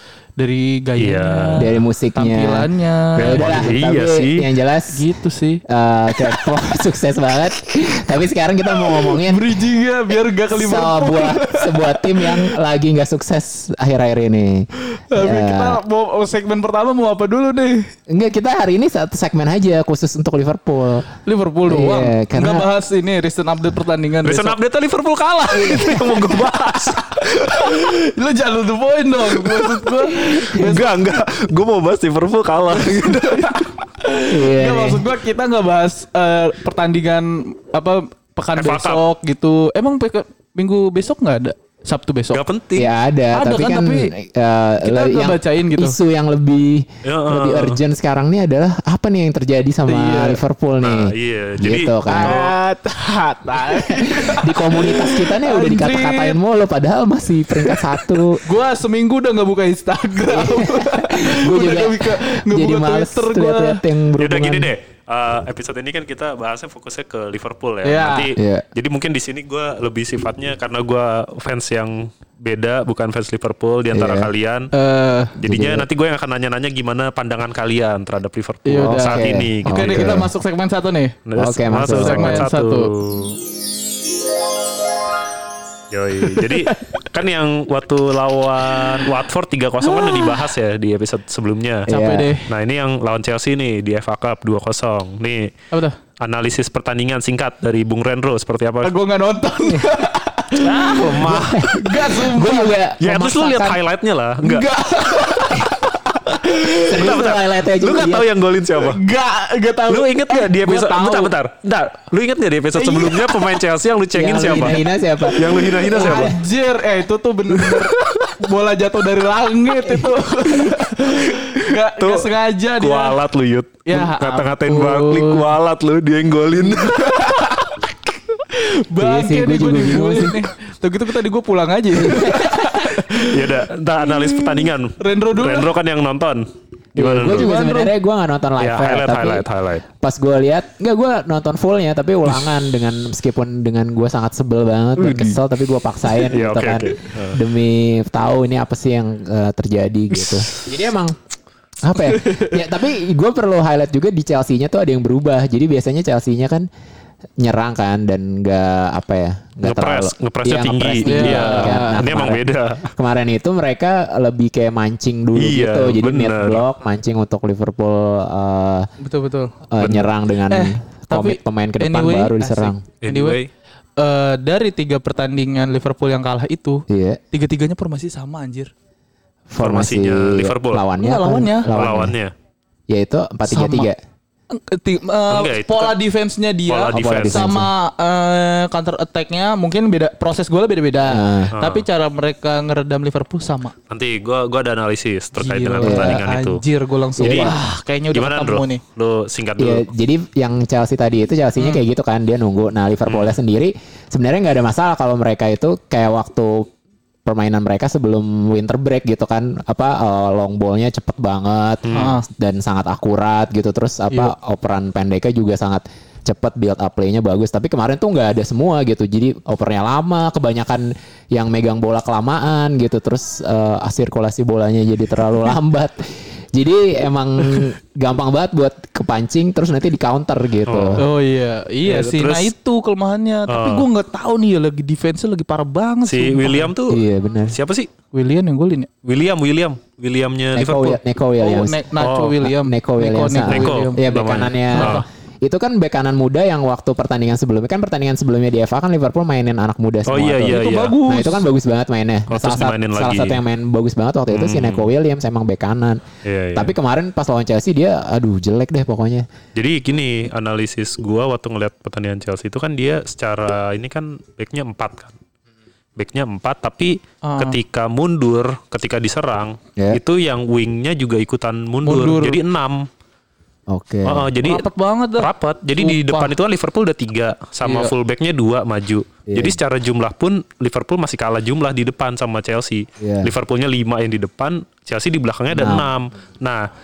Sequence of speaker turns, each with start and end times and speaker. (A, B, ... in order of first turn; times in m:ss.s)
0:00.4-0:03.6 A
0:01.0-0:01.7 B
0:01.6-0:02.7 C
0:03.2-0:04.5 B
0:03.2-0:05.0 C
0:04.9-0:05.6 A
0:05.7-0:09.6 C
0:06.2-0:06.6 A
0:08.8-0:12.6 A
0:10.5-0:15.8 C
0:14.9-0:17.9 A
0:18.1-0:21.1 C
0:21.2-0:24.6 A
0:21.7-0:22.7 C
0:24.2-0:27.9 B
0:25.5-0:26.2 C
0:26.9-0:30.9 A
0:29.4-0:33.7 B
0:32.7-0:42.4 A
0:34.3-0:35.0 C
0:38.6-0:39.0 B
0:42.3-0:42.9 B
0:42.8-0:52.4 C
0:43.3-0:44.1 A
0:44.8-0:46.0 A
0:47.0-0:47.8 B
0:49.9-0:50.4 A
0:50.8-0:52.5 B
0:52.1-0:56.4 A
0:53.7-0:58.4 C
0:57.6-1:03.8 A
1:00.3-1:04.7 C
1:04.2-1:14.7 B
1:07.8-1:08.3 A
1:08.4-1:08.7 C
1:13.9-1:14.3 C
1:14.7-1:15.3 A
1:15.4-1:20.2 B
1:15.5-1:15.9 C
1:18.7-1:21.2 A
1:18.8-1:20.3 C
1:21.3-1:23.4 B
1:21.4-1:22.4 C
1:21.8-1:22.9 A
1:25.9-1:35.5 B
1:26.2-1:26.9 A
1:28.8-1:29.1 A
1:29.8-1:30.5 A
1:31.9-1:32.3 C
1:31.9-1:32.5 A
1:35.7-1:36.0 A
1:36.2-1:38.9 B
1:38.8-1:42.8 A
1:40.6-1:42.1 B
1:41.2-1:43.8 C
1:43.0-1:45.7 B
1:44.4-1:45.8 C
1:46.3-1:47.0 A
1:46.8-1:48.3 C
1:46.9-1:49.0 B
1:48.8-1:51.3 A
1:49.9-1:56.3 B
1:52.8-1:53.6 A
1:54.1-1:56.4 C
1:55.9-2:03.2 A
1:57.6-1:58.4 B
2:00.5-2:02.3 B
2:02.8-2:07.7 B
2:03.9-2:05.6 A
2:06.6-2:15.7 A
2:09.0-2:10.4 C
2:12.0-2:12.9 C
2:13.2-2:16.4 B
2:17.0-2:17.5 B
2:17.0-2:19.5 C
2:17.2-2:17.9 A
2:18.6-2:19.8 B
2:20.0-2:31.2 C
2:25.0-2:25.4 B
2:26.1-2:27.4 B
2:30.2-2:30.6 B
2:31.8-2:36.7 C
2:32.2-2:32.5 A
2:37.4-2:48.9 C
2:39.6-2:42.9 B
2:41.0-2:42.0 A
2:45.4-2:46.6 B
2:49.0-2:49.5 A
2:49.7-2:52.8 C
2:49.8-2:50.1 B
2:50.5-2:53.4 A
2:53.0-2:53.5 B
2:54.0-2:58.7 A
2:56.9-2:57.2 C
2:59.5-3:02.2 C
2:59.6-3:00.9 B
3:01.0-3:01.7 A
3:01.7-3:02.3 B
3:02.9-3:04.0 C
3:03.5-3:03.9 A
3:04.5-3:13.8 A
3:05.3-3:05.9 B
3:06.7-3:07.5 B
3:06.9-3:07.7 C
3:11.1-3:11.5 C
3:11.5-3:11.9 B
3:13.9-3:16.6 B
3:15.4-3:18.8 A
3:15.8-3:16.2 C
3:17.2-3:17.6 C
3:17.2-3:17.5 B
3:18.1-3:19.9 B
3:19.6-3:26.7 C
3:23.1-3:23.4 B
3:27.2-3:51.0 C
3:31.8-3:32.2 B
3:31.9-3:32.2 A
3:50.7-3:51.0 B
3:51.0-3:56.7 A
3:51.8-3:52.5 B
3:53.5-3:53.9 B
3:56.1-3:57.9 B
3:56.9-3:57.6 C
3:58.1-3:58.9 A
3:59.0-4:01.0 B
4:00.6-4:01.8 C
4:01.4-4:04.2 A
4:02.0-4:02.4 B
4:02.5-4:16.0 C
4:03.4-4:05.0 B
4:04.7-4:05.0 A
4:10.1-4:11.0 B
4:10.5-4:11.5 A
4:12.3-4:13.4 B
4:14.3-4:14.9 B
4:16.2-4:16.7 B
4:16.6-4:19.3 C
4:19.6-4:25.2 B
4:26.0-4:32.8 B
4:27.2-4:27.6 A
4:31.8-4:32.4 A
4:33.7-4:34.3 C
4:34.0-4:46.7 B
4:34.4-4:36.3 A
4:37.6-4:37.9 A
4:39.3-4:39.6 C
4:43.0-4:43.3 C
4:45.5-4:45.9 C